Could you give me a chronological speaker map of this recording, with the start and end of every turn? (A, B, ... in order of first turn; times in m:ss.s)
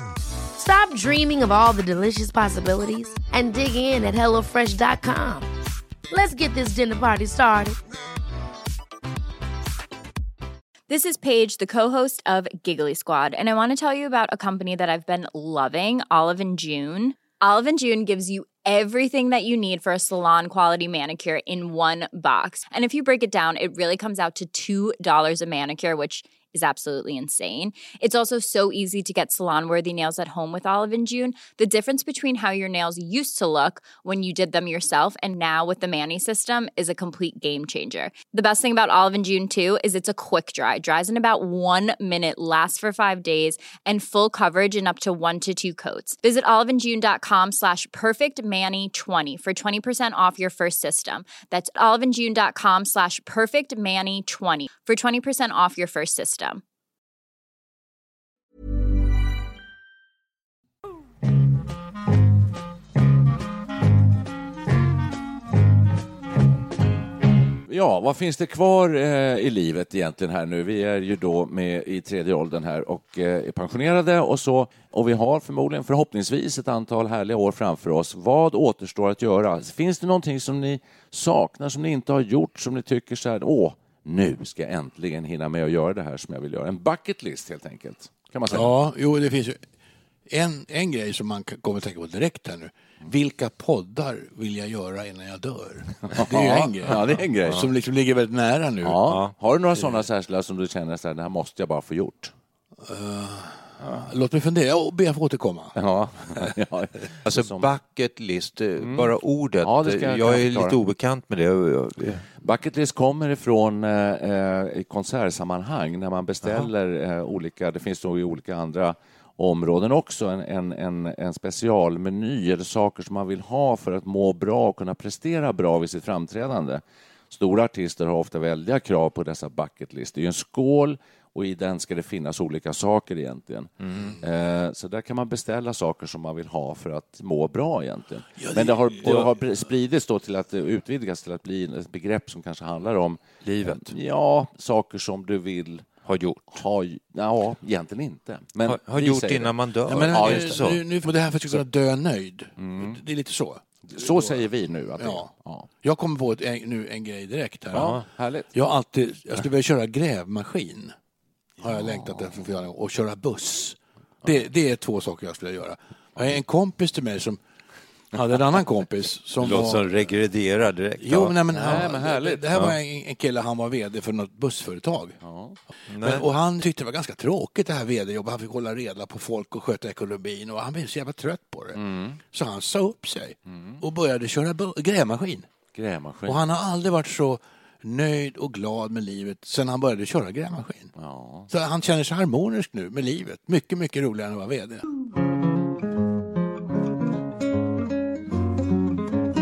0:00.6-0:05.5 A
0:06.1-0:07.8 A
0:10.9-0:56.6 B
1:07.7-1:28.7 C
1:28.5-1:29.6 D
1:30.3-1:39.0 D
1:36.1-1:37.6 C
1:38.8-1:42.3 C
1:39.0-1:39.3 E
1:42.8-1:45.7 D
1:45.7-1:47.7 C
1:47.2-1:52.3 E
1:48.8-1:49.1 C
1:49.6-1:50.8 C
1:52.4-2:25.8 C
1:56.4-1:56.7 E
2:13.8-2:14.1 E
2:18.4-2:19.3 D
2:23.4-2:23.9 E
2:26.0-2:26.6 E
2:26.5-2:29.5 C
2:28.6-2:30.8 E
2:29.9-2:34.4 D
2:30.1-2:30.8 C
2:32.6-2:33.0 C
2:33.9-2:35.7 C
2:35.0-2:35.3 D
2:35.8-2:38.0 D
2:37.7-2:38.5 C
2:38.5-2:40.9 D
2:41.6-2:47.4 D
2:41.8-2:42.3 C
2:48.1-2:49.8 D
2:49.4-2:51.8 E
2:51.0-2:55.2 D
2:51.5-2:52.4 C
2:55.2-2:55.6 C
2:55.9-2:56.3 E
2:56.0-3:05.5 D
3:01.7-3:02.2 C
3:03.5-3:03.8 C
3:05.7-3:06.4 C
3:06.2-3:10.9 D
3:11.0-3:11.5 C
3:11.5-3:14.8 D